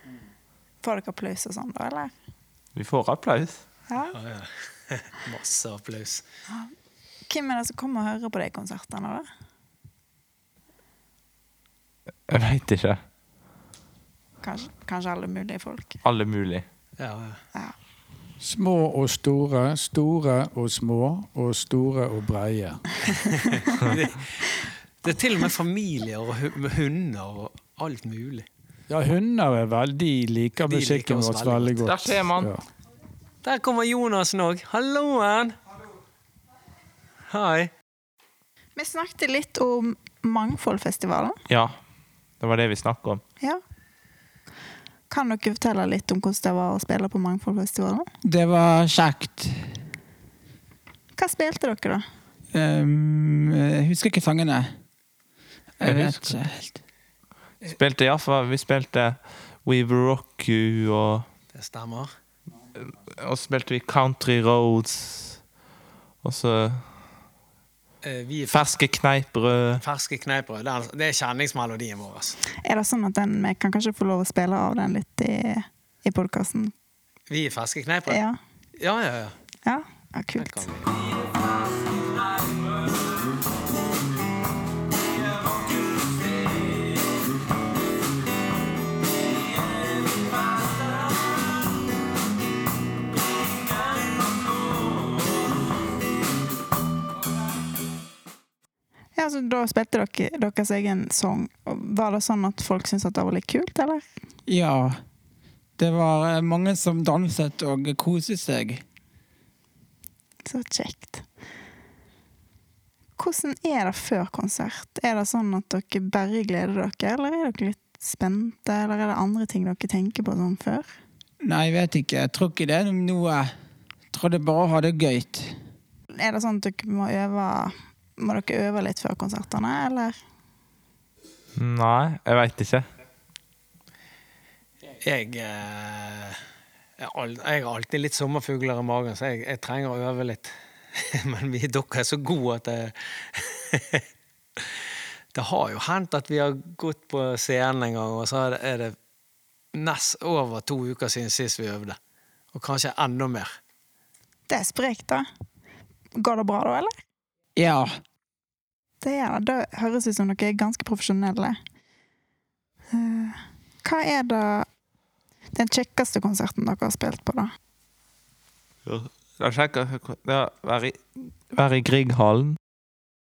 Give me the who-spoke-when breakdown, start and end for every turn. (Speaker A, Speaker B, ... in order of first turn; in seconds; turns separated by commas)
Speaker A: 0.8-2.1, Speaker B: 2.8-3.6, Speaker C: 4.0-6.2, Speaker A: 7.3-9.2, Speaker B: 12.3-13.0, Speaker A: 14.4-16.0, Speaker B: 16.0-16.6, Speaker C: 17.0-17.4, Speaker D: 18.4-22.9, Speaker C: 23.3-28.5, Speaker D: 28.9-32.6, Speaker C: 30.6-31.9, Speaker B: 31.8-32.5, Speaker C: 33.4-35.5, Speaker C: 37.3-37.7, Speaker A: 38.8-41.4, Speaker B: 41.5-41.8, Speaker B: 42.4-43.2, Speaker A: 45.1-48.0, Speaker E: 48.2-49.6, Speaker A: 51.2-52.0, Speaker E: 52.5-54.7, Speaker E: 55.8-56.8, Speaker B: 55.8-56.4, Speaker B: 57.6-61.2, Speaker C: 61.5-62.1, Speaker B: 62.8-65.4, Speaker B: 66.2-66.8, Speaker C: 68.0-68.7, Speaker B: 68.5-69.8, Speaker C: 69.8-72.4, Speaker A: 72.6-76.7, Speaker C: 77.3-78.2, Speaker A: 78.1-78.4, Speaker C: 78.8-79.3, Speaker A: 79.7-80.7, Speaker B: 80.4-80.7, Speaker A: 99.2-104.0, Speaker E: 104.5-105.0, Speaker E: 105.8-108.8, Speaker A: 110.5-111.2, Speaker A: 113.2-120.9, Speaker E: 121.4-123.5, Speaker E: 124.1-125.5, Speaker A: 126.2-130.2, Speaker B: 131.6-132.9, Speaker C: 135.0-136.4, Speaker C: 137.0-144.1, Speaker C: 145.3-148.9, Speaker C: 149.7-152.0, Speaker C: 152.5-153.5, Speaker A: 154.5-155.3, Speaker A: 156.2-156.9, Speaker E: 157.6-157.9, Speaker A: 159.0-161.6, Speaker A: 162.9-164.7, Speaker A: 165.5-167.5, Speaker B: 168.9-172.6